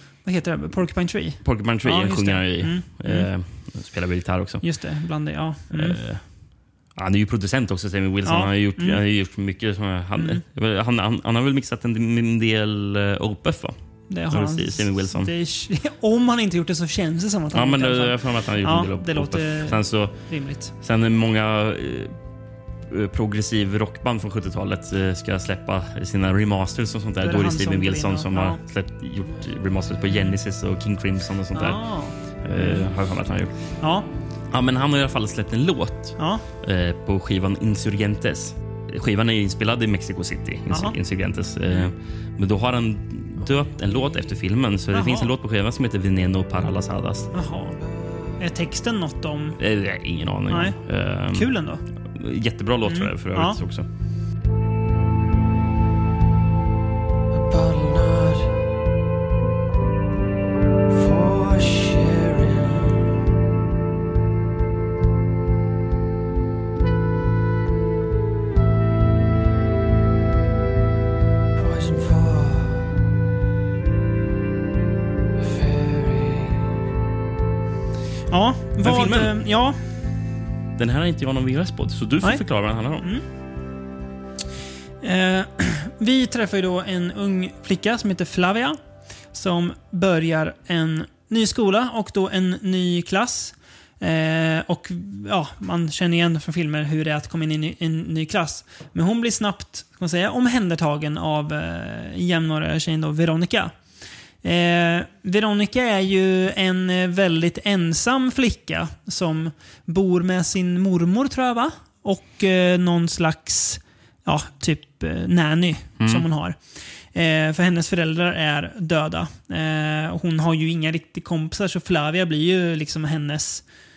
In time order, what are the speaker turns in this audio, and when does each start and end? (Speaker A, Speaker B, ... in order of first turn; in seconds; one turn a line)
Speaker A: 0.2-3.3
Speaker B: 1.4-4.6
Speaker A: 4.6-6.0
Speaker B: 5.7-6.2
Speaker B: 6.9-13.8
Speaker A: 8.2-9.0
Speaker A: 10.2-10.4
Speaker A: 14.1-20.7
Speaker B: 14.3-15.3
Speaker B: 17.5-20.2
Speaker B: 20.8-22.1
Speaker B: 22.9-31.8
Speaker A: 27.2-28.6
Speaker A: 31.5-32.8
Speaker B: 32.4-33.5
Speaker A: 33.8-34.1
Speaker B: 34.5-47.3
Speaker A: 36.2-36.4
Speaker A: 40.7-40.9
Speaker A: 44.9-45.3
Speaker A: 47.3-47.8
Speaker A: 48.4-49.6
Speaker B: 49.6-51.5
Speaker A: 50.5-50.8
Speaker A: 51.3-51.8
Speaker B: 52.1-53.9
Speaker A: 52.8-53.6
Speaker C: 57.4-58.5
Speaker C: 61.0-62.9
Speaker C: 71.6-72.8
Speaker C: 75.5-76.5
Speaker A: 78.3-79.8
Speaker B: 78.8-79.3
Speaker B: 80.8-83.1
Speaker A: 85.0-88.8
Speaker A: 89.3-103.7
Speaker A: 104.4-116.6
Speaker B: 116.0-116.2
Speaker A: 117.1-123.6